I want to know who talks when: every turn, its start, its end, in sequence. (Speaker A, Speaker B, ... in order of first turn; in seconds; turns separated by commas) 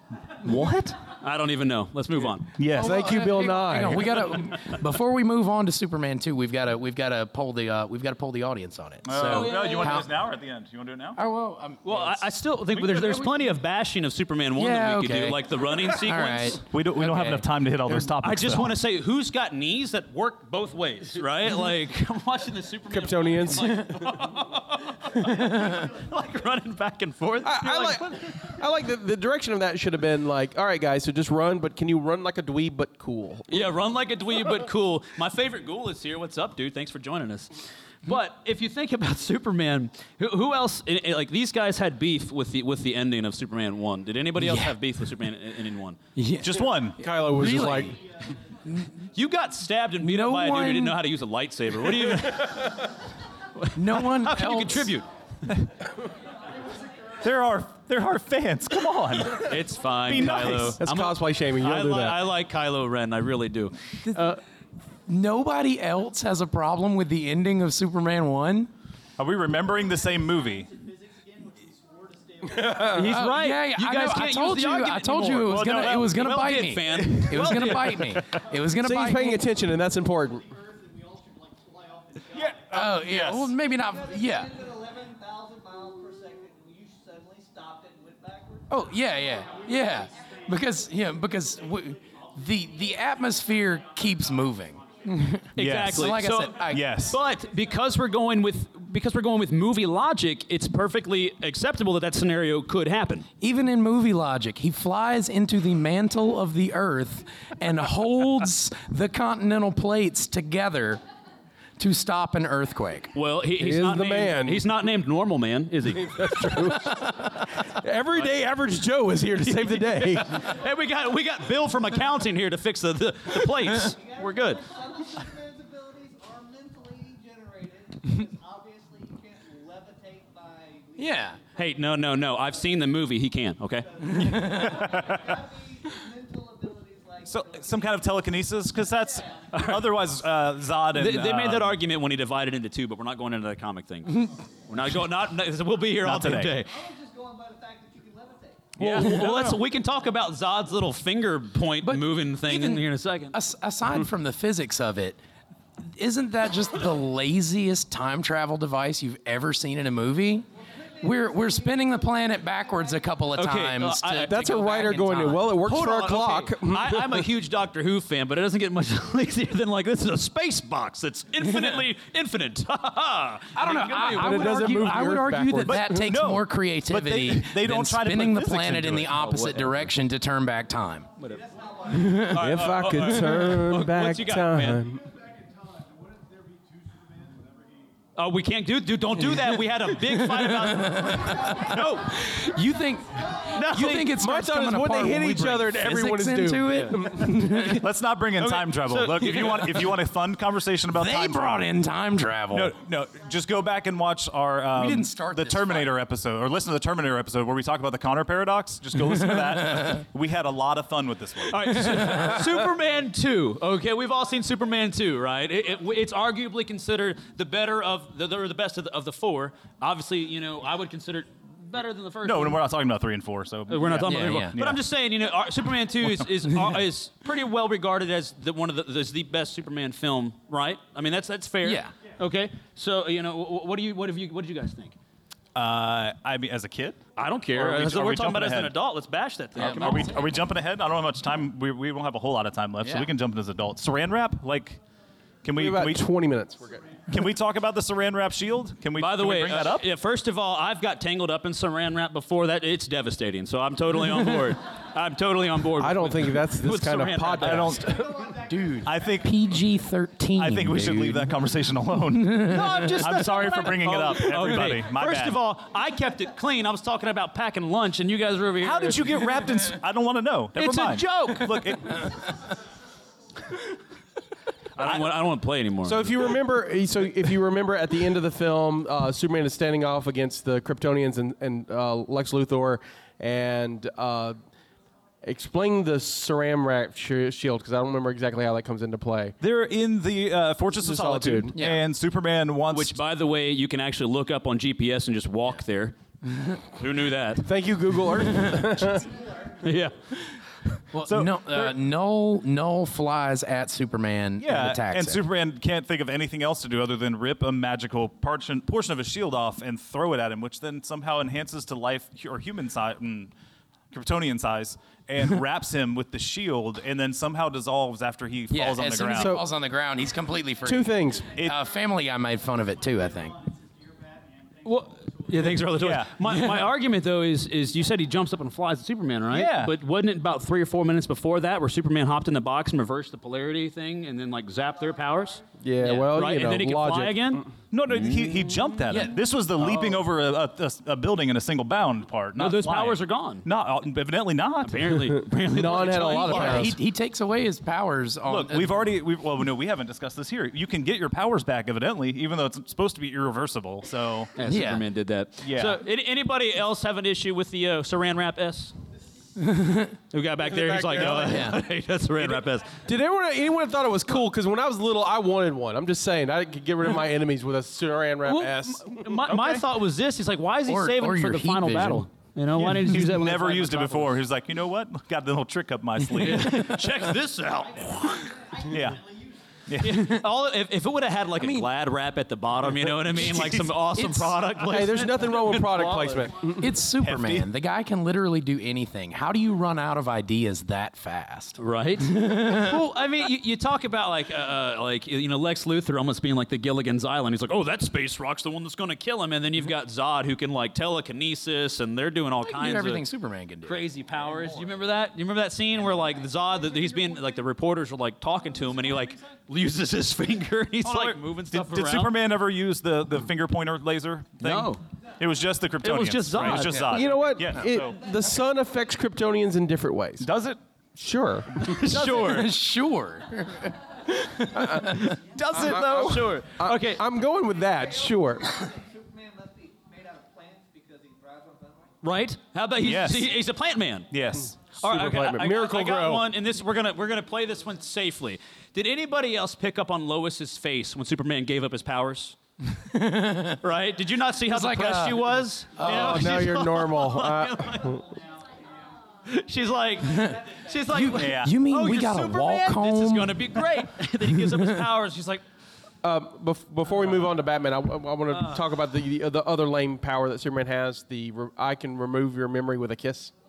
Speaker A: 0.4-1.0, Speaker B: 1.0-2.5, Speaker A: 2.6-3.0, Speaker C: 2.7-4.1, Speaker D: 2.7-10.1, Speaker A: 9.1-11.2, Speaker B: 9.3-9.9, Speaker D: 11.2-12.3, Speaker B: 11.8-16.6, Speaker D: 12.8-13.5, Speaker D: 14.6-17.5, Speaker A: 16.7-18.8, Speaker B: 18.2-28.6, Speaker C: 22.9-23.9, Speaker D: 25.3-25.8, Speaker C: 27.4-33.5, Speaker B: 33.5-46.0, Speaker D: 44.4-44.8, Speaker D: 46.2-48.0, Speaker A: 46.4-47.0, Speaker C: 47.0-48.0, Speaker E: 47.8-48.4, Speaker B: 49.1-52.9, Speaker D: 50.0-51.0, Speaker B: 53.6-55.1, Speaker D: 53.8-55.0, Speaker E: 56.5-57.3, Speaker A: 57.2-60.8, Speaker B: 59.4-64.4, Speaker C: 60.5-62.3, Speaker D: 64.0-64.4, Speaker D: 65.1-68.7, Speaker A: 69.2-70.7, Speaker E: 69.5-73.1, Speaker C: 72.6-73.0, Speaker B: 72.9-78.2, Speaker D: 73.0-79.5, Speaker A: 75.5-76.4, Speaker A: 76.9-78.2, Speaker C: 78.7-80.4, Speaker E: 79.2-83.1, Speaker A: 82.3-83.5, Speaker D: 82.7-84.5, Speaker F: 83.6-89.0, Speaker D: 88.7-97.1, Speaker E: 88.9-95.5, Speaker A: 95.6-96.2, Speaker B: 95.6-103.3, Speaker E: 96.4-98.4, Speaker A: 96.7-97.2, Speaker D: 103.4-111.0, Speaker D: 111.8-113.1, Speaker B: 113.2-117.0, Speaker C: 113.6-114.7, Speaker C: 116.0-120.4, Speaker B: 119.4-124.6, Speaker F: 123.9-131.4, Speaker D: 131.0-131.4, Speaker B: 131.6-133.9, Speaker F: 132.3-132.9, Speaker F: 133.8-139.5, Speaker D: 134.0-134.9, Speaker A: 134.6-135.2, Speaker A: 137.3-141.8, Speaker B: 139.5-139.9, Speaker B: 140.9-146.7, Speaker A: 146.0-146.6, Speaker F: 146.6-148.7, Speaker A: 148.8-149.5, Speaker B: 148.8-153.4, Speaker D: 151.8-155.2, Speaker D: 155.8-160.5, Speaker F: 160.9-163.2, Speaker D: 161.0-164.4, Speaker B: 163.3-174.7, Speaker C: 164.3-167.3, Speaker D: 173.5-181.1, Speaker C: 174.0-176.1, Speaker A: 175.6-179.2, Speaker B: 179.1-179.8, Speaker F: 181.2-182.9, Speaker D: 181.9-182.4, Speaker C: 182.2-185.0, Speaker B: 182.2-184.8, Speaker E: 184.8-187.9, Speaker B: 188.2-192.3, Speaker D: 190.1-197.9, Speaker E: 191.4-193.5, Speaker B: 193.5-194.1, Speaker C: 194.0-197.7, Speaker B: 196.7-197.1, Speaker A: 197.4-201.6, Speaker B: 198.4-200.0, Speaker D: 200.9-202.8, Speaker A: 202.5-211.9, Speaker D: 204.8-205.9, Speaker D: 209.3-210.0, Speaker B: 211.5-222.6, Speaker D: 211.9-212.4, Speaker A: 222.2-224.8, Speaker B: 223.7-235.0, Speaker D: 224.0-224.6, Speaker D: 231.6-231.9, Speaker A: 235.6-238.7, Speaker B: 237.2-240.2, Speaker D: 239.6-240.1, Speaker A: 239.6-244.8, Speaker D: 242.8-243.1, Speaker A: 245.4-246.1, Speaker C: 245.6-247.0, Speaker A: 247.1-249.9, Speaker B: 249.0-257.9, Speaker C: 255.8-258.1, Speaker A: 257.4-257.9, Speaker E: 257.8-259.6, Speaker D: 258.5-261.4, Speaker A: 258.8-259.4, Speaker A: 260.3-265.4, Speaker D: 262.2-263.1, Speaker B: 262.5-269.5, Speaker A: 268.6-272.1, Speaker B: 270.6-272.1, Speaker B: 274.8-276.1, Speaker A: 274.8-275.1, Speaker C: 275.8-284.4, Speaker C: 285.2-289.4, Speaker A: 289.4-293.0, Speaker C: 290.8-291.6, Speaker D: 291.5-291.8, Speaker B: 292.7-296.0, Speaker B: 296.8-297.5, Speaker C: 297.4-299.1, Speaker D: 298.4-298.7, Speaker B: 299.6-300.2, Speaker D: 300.9-305.2, Speaker A: 301.1-301.7, Speaker A: 304.4-313.3, Speaker A: 313.9-319.3, Speaker D: 318.5-323.4, Speaker C: 319.1-319.4, Speaker C: 320.6-321.4, Speaker E: 322.8-325.7, Speaker B: 324.6-335.4, Speaker A: 325.8-326.2, Speaker D: 326.3-326.7, Speaker A: 329.3-329.7, Speaker C: 335.6-337.4, Speaker D: 335.8-336.1, Speaker B: 336.1-338.5, Speaker A: 337.7-345.1, Speaker D: 338.9-339.2, Speaker B: 342.4-343.5, Speaker B: 344.6-346.7, Speaker C: 345.4-346.8, Speaker A: 346.0-346.6, Speaker D: 346.2-348.9, Speaker A: 348.3-354.3, Speaker B: 354.4-358.7, Speaker D: 354.5-354.8, Speaker A: 355.4-355.8, Speaker D: 359.4-359.9, Speaker B: 360.1-362.8, Speaker C: 360.5-361.5, Speaker D: 361.1-361.6, Speaker C: 362.9-369.3, Speaker B: 368.2-374.2, Speaker D: 370.7-372.1, Speaker A: 372.6-376.9, Speaker B: 376.2-378.3, Speaker E: 377.5-379.6, Speaker A: 378.6-379.0, Speaker A: 379.7-380.2, Speaker B: 379.8-386.3, Speaker D: 381.4-381.7, Speaker D: 383.2-384.5, Speaker C: 384.6-386.6, Speaker D: 386.6-392.8, Speaker A: 387.0-387.5, Speaker B: 391.6-403.0, Speaker D: 402.4-403.9, Speaker B: 403.6-412.1, Speaker F: 404.2-404.6, Speaker E: 406.1-407.3, Speaker A: 410.8-418.0, Speaker B: 414.4-414.8, Speaker B: 415.8-417.0, Speaker C: 416.8-420.3, Speaker A: 420.2-420.6, Speaker C: 421.0-421.7, Speaker B: 421.6-422.6, Speaker D: 421.9-425.2, Speaker A: 425.4-426.5, Speaker B: 425.6-427.0, Speaker C: 425.6-428.6, Speaker F: 427.4-432.0, Speaker B: 432.0-434.1, Speaker A: 432.8-433.4, Speaker A: 434.1-435.0, Speaker B: 434.7-442.4, Speaker C: 434.8-436.3, Speaker D: 442.8-443.6, Speaker B: 443.6-448.0, Speaker D: 444.5-446.3, Speaker C: 445.8-448.1, Speaker E: 447.8-449.0, Speaker B: 449.3-455.4, Speaker D: 450.0-454.8, Speaker E: 450.1-451.0, Speaker A: 451.0-451.6, Speaker C: 456.0-463.3, Speaker B: 456.9-457.2, Speaker B: 458.3-458.8